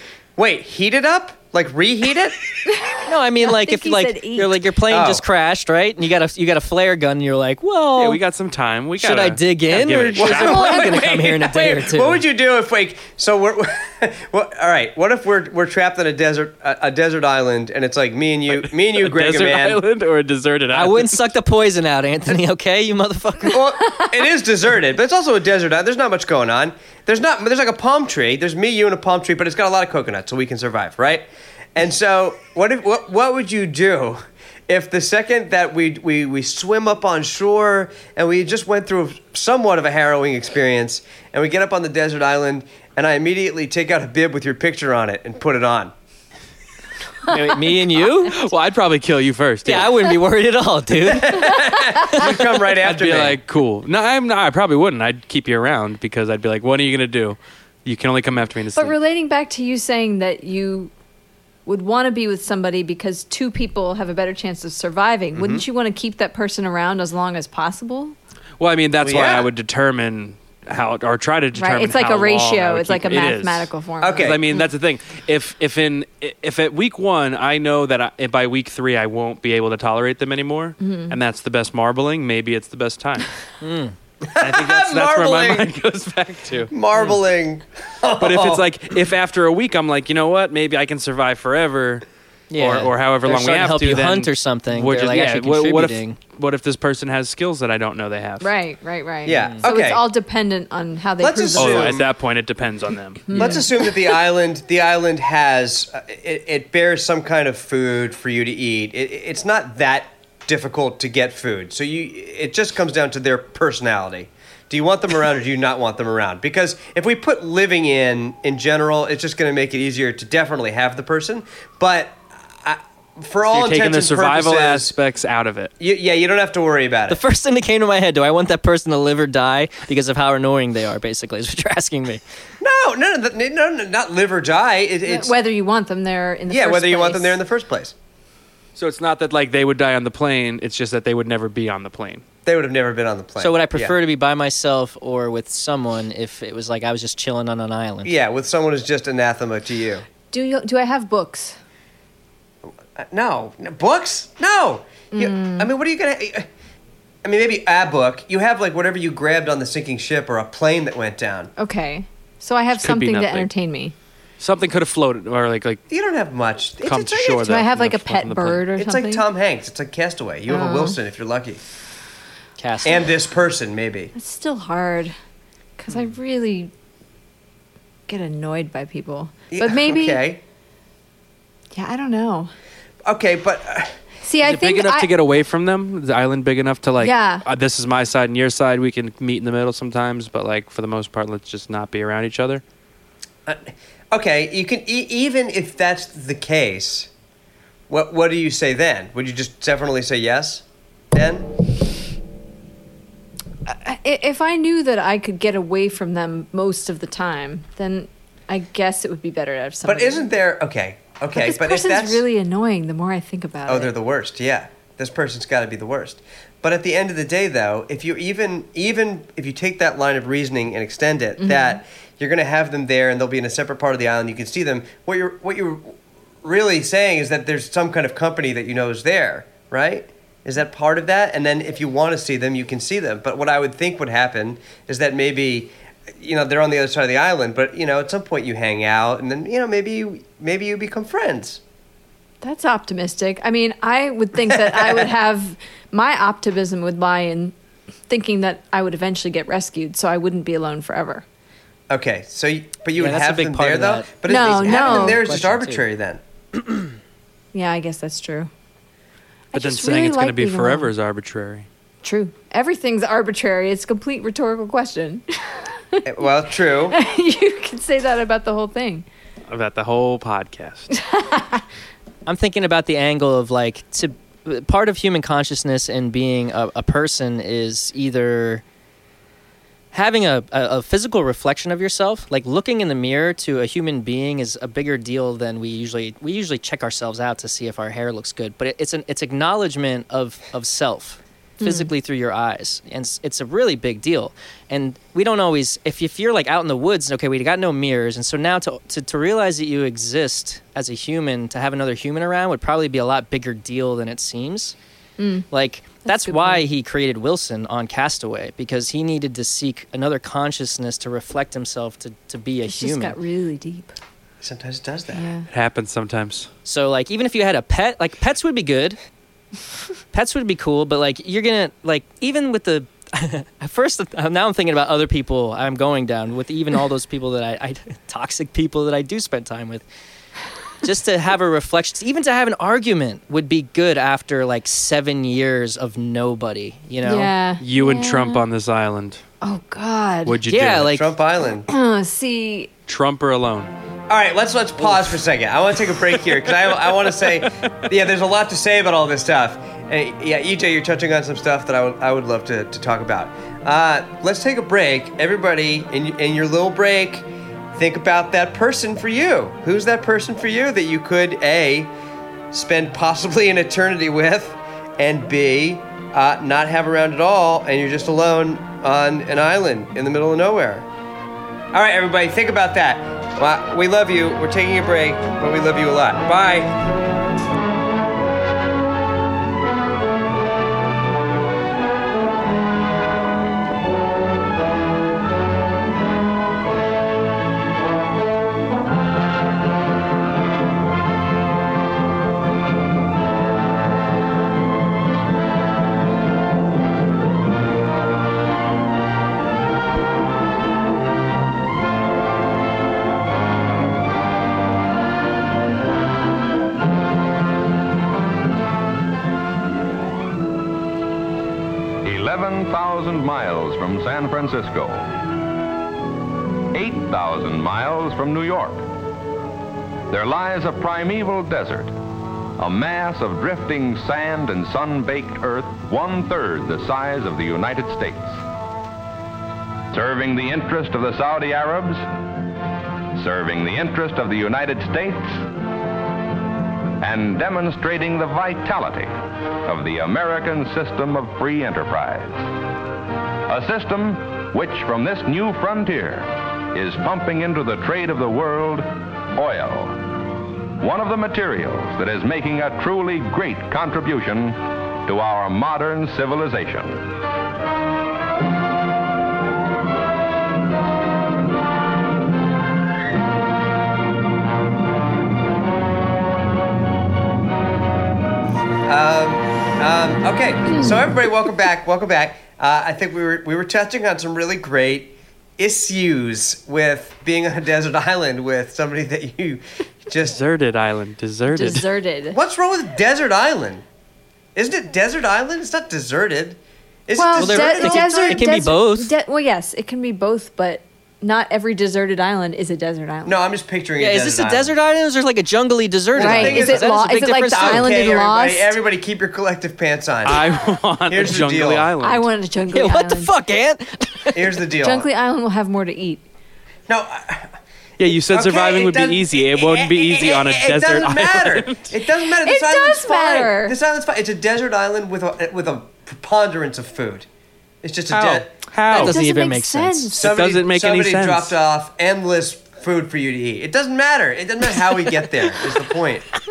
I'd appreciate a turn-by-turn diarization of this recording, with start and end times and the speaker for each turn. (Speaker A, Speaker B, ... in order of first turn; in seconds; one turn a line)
Speaker A: 0.4-2.5
Speaker B: 2.7-4.6
Speaker C: 3.1-8.2
Speaker A: 4.9-5.2
Speaker D: 8.0-10.8
Speaker C: 9.0-12.2
Speaker A: 10.2-19.8
Speaker D: 18.5-21.2
Speaker C: 20.7-23.6
Speaker A: 23.5-45.9
Speaker B: 23.8-24.1
Speaker C: 47.3-48.4
Speaker D: 48.3-50.1
Speaker C: 49.6-51.5
Speaker A: 51.0-53.4
Speaker B: 51.4-52.1
Speaker D: 52.8-59.0
Speaker B: 58.8-60.9
Speaker B: 61.7-68.2
Speaker A: 65.3-65.7
Speaker D: 68.6-83.3
Speaker A: 69.0-69.5
Speaker B: 71.5-74.4
Speaker A: 74.0-74.5
Speaker B: 80.8-81.2
Speaker C: 83.6-84.0
Speaker A: 84.2-85.7
Speaker D: 84.4-86.7
Speaker A: 86.7-88.6
Speaker D: 88.2-92.0
Speaker C: 92.5-96.2
Speaker D: 92.6-98.5
Speaker B: 98.4-102.0
Speaker A: 99.2-100.0
Speaker C: 99.4-99.7
Speaker A: 101.2-102.1
Speaker D: 101.6-103.6
Speaker B: 103.3-103.7
Speaker A: 103.3-124.9
Speaker D: 123.5-125.7
Speaker A: 125.8-127.2
Speaker C: 127.1-132.2
Speaker A: 132.6-135.3
Speaker B: 135.1-137.4
Speaker A: 136.5-137.9
Speaker D: 138.8-142.2
Speaker A: 142.4-144.0
Speaker C: 143.4-148.1
Speaker A: 148.1-150.1
Speaker B: 150.3-151.6
Speaker A: 152.7-156.5
Speaker B: 155.1-155.7
Speaker A: 157.2-161.5
Speaker B: 161.6-163.9
Speaker D: 162.8-163.5
Speaker D: 164.4-165.8
Speaker A: 165.9-167.6
Speaker D: 166.8-168.6
Speaker B: 167.4-169.3
Speaker A: 168.8-171.6
Speaker B: 170.5-171.0
Speaker C: 172.6-173.2
Speaker A: 172.8-174.1
Speaker B: 174.1-175.2
Speaker B: 175.8-176.7
Speaker B: 178.1-180.2
Speaker A: 179.5-180.4
Speaker B: 181.7-182.5
Speaker A: 183.1-184.0
Speaker B: 184.2-185.1
Speaker D: 184.4-192.6
Speaker B: 187.0-187.4
Speaker A: 193.5-197.1
Speaker A: 197.9-201.5
Speaker B: 203.7-210.3
Speaker A: 209.8-212.2
Speaker B: 211.3-213.9
Speaker A: 213.7-241.6
Speaker B: 221.4-221.8
Speaker B: 242.4-247.5
Speaker A: 244.4-245.1
Speaker B: 248.1-251.2
Speaker A: 251.9-256.2
Speaker C: 253.0-255.8
Speaker B: 254.3-255.2
Speaker B: 257.5-258.5
Speaker B: 259.5-260.9
Speaker D: 259.5-261.7
Speaker B: 262.0-266.1
Speaker A: 266.1-267.0
Speaker B: 266.9-269.1
Speaker D: 269.5-270.9
Speaker B: 270.9-271.6
Speaker C: 272.3-278.6
Speaker C: 279.9-304.8
Speaker B: 291.6-291.9
Speaker B: 305.2-305.5
Speaker C: 305.5-313.2
Speaker B: 306.1-306.7
Speaker B: 312.7-314.0
Speaker A: 314.4-315.3
Speaker B: 315.1-315.5
Speaker D: 315.5-316.5
Speaker C: 316.7-319.0
Speaker C: 320.1-329.8
Speaker C: 330.8-337.3
Speaker B: 337.0-338.4
Speaker D: 337.6-339.2
Speaker B: 339.4-340.4
Speaker D: 340.3-341.0
Speaker C: 340.5-341.1
Speaker A: 340.8-341.7
Speaker B: 341.7-342.7
Speaker D: 342.9-343.7
Speaker A: 344.1-361.9
Speaker D: 347.3-347.7
Speaker A: 362.5-370.9
Speaker A: 371.7-376.8
Speaker E: 412.0-415.1
Speaker E: 416.7-418.9
Speaker E: 420.1-421.9
Speaker E: 422.6-428.4
Speaker E: 429.9-432.0
Speaker E: 433.2-435.4
Speaker E: 437.0-439.1
Speaker E: 439.6-442.5
Speaker E: 443.5-450.0
Speaker E: 450.8-457.1
Speaker A: 468.9-480.4
Speaker D: 480.2-481.9
Speaker B: 481.5-482.4
Speaker A: 482.3-483.9
Speaker A: 484.6-488.6
Speaker B: 487.1-493.4
Speaker C: 487.4-489.1
Speaker A: 493.3-494.8
Speaker C: 494.0-498.1
Speaker A: 496.1-496.9
Speaker B: 496.2-498.8
Speaker A: 497.5-500.5
Speaker D: 500.2-502.3
Speaker A: 501.1-501.9
Speaker B: 502.0-503.3
Speaker C: 502.7-504.4
Speaker A: 504.3-505.1
Speaker B: 504.8-506.2
Speaker A: 506.9-517.3
Speaker D: 508.0-511.9
Speaker B: 512.3-513.8
Speaker A: 517.8-518.5
Speaker D: 518.1-519.2
Speaker B: 518.9-520.2
Speaker C: 518.9-520.1
Speaker A: 520.1-526.3
Speaker D: 520.2-521.6